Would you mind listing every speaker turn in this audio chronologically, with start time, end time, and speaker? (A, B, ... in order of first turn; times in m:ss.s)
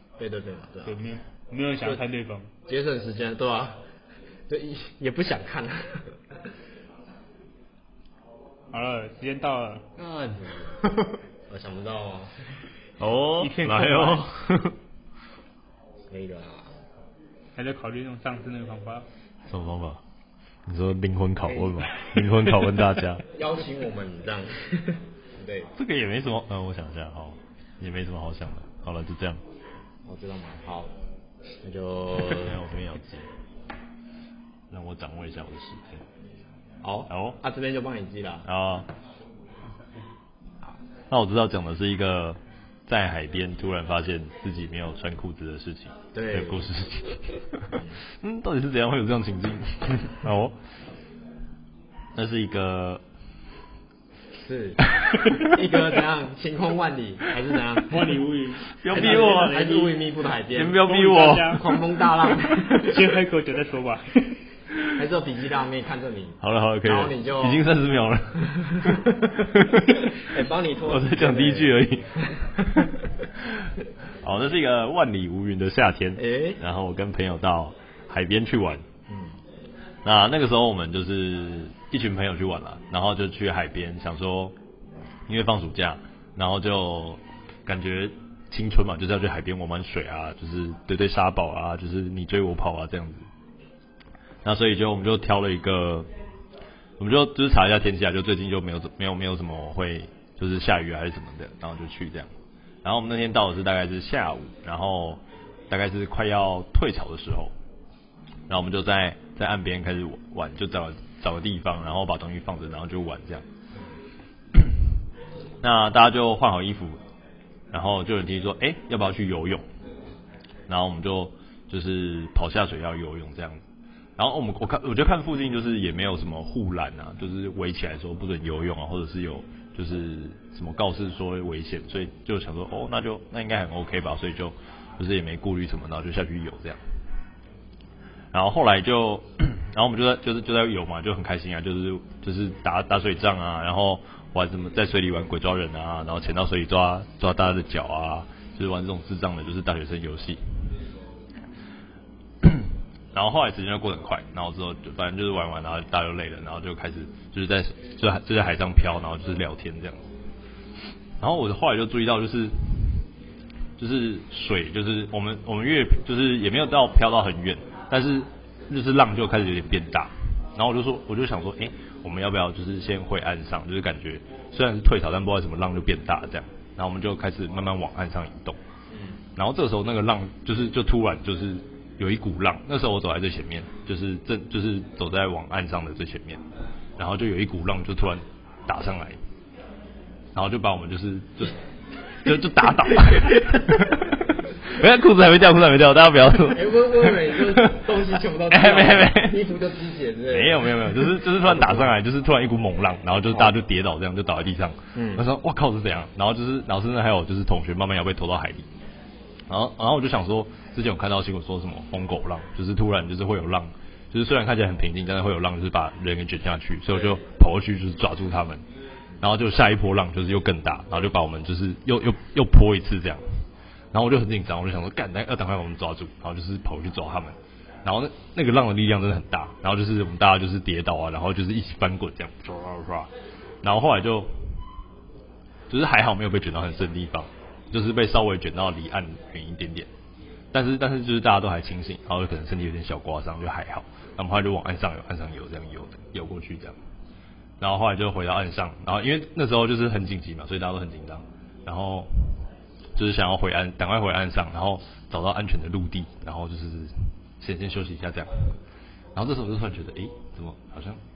0:00.2-0:01.0 A
0:00.8-0:02.5 B
0:02.7-0:03.8 A
0:04.5-0:06.0 A
0:08.7-0:09.8 B
0:10.0-0:10.4 C
0:10.4-0:10.7 A
0:11.5-0:12.3 A
0:13.0-0:14.8 C
0:13.4-0:14.2 B
0:16.1-0:16.7 A
0:17.6-0:19.1 B
0:19.5-0:20.0 C
0:20.7-0:23.2 C
0:21.4-0:21.8 A
0:23.3-0:25.7 A
0:25.8-0:29.4 C
0:30.1-0:30.9 A
0:31.6-0:32.6 A
0:32.2-0:33.3 C
0:34.7-0:36.0 C
0:36.8-0:38.4 A
0:37.1-0:37.4 C
0:38.4-0:38.9 C
0:41.1-0:50.6 C
0:46.1-0:46.7 A
0:52.1-0:53.0 C
0:54.4-0:57.9 A
0:57.9-0:59.9 B
0:58.8-0:59.9 C
0:58.9-1:02.9 A
1:00.5-1:01.8 C
1:00.7-1:01.6 B
1:02.7-1:04.4 B
1:04.9-1:07.7 A
1:06.4-1:10.2 C
1:08.6-1:09.4 A
1:10.1-1:12.9 A
1:10.9-1:12.3 C
1:13.4-1:13.7 C
1:14.2-1:18.8 C
1:16.2-1:16.6 A
1:19.1-1:19.4 A
1:20.0-1:24.5 C
1:25.3-1:33.2 C
1:34.4-1:36.1 C
1:37.0-1:42.3 C
1:42.8-1:47.5 C
1:48.5-1:53.4 C
1:55.6-1:57.0 C
1:57.7-1:59.6 C
2:00.7-2:03.6 C
2:04.2-2:16.8 C
2:18.3-2:30.4 C
2:32.4-2:40.1 C
2:41.2-2:42.5 C
2:43.8-2:58.6 C
2:59.4-3:06.4 C
3:07.0-3:09.2 C
3:10.3-3:11.6 C
3:12.2-3:17.9 C
3:16.5-3:21.9 A
3:18.5-3:19.4 C
3:20.3-3:28.7 C
3:24.9-3:25.2 A
3:29.5-3:38.6 C
3:39.2-3:43.2 C
3:43.9-3:53.1 C
3:53.6-3:54.3 C
3:55.7-3:59.9 C
4:00.5-4:06.8 C
4:07.6-4:12.4 C
4:13.0-4:18.3 C
4:19.2-4:21.0 C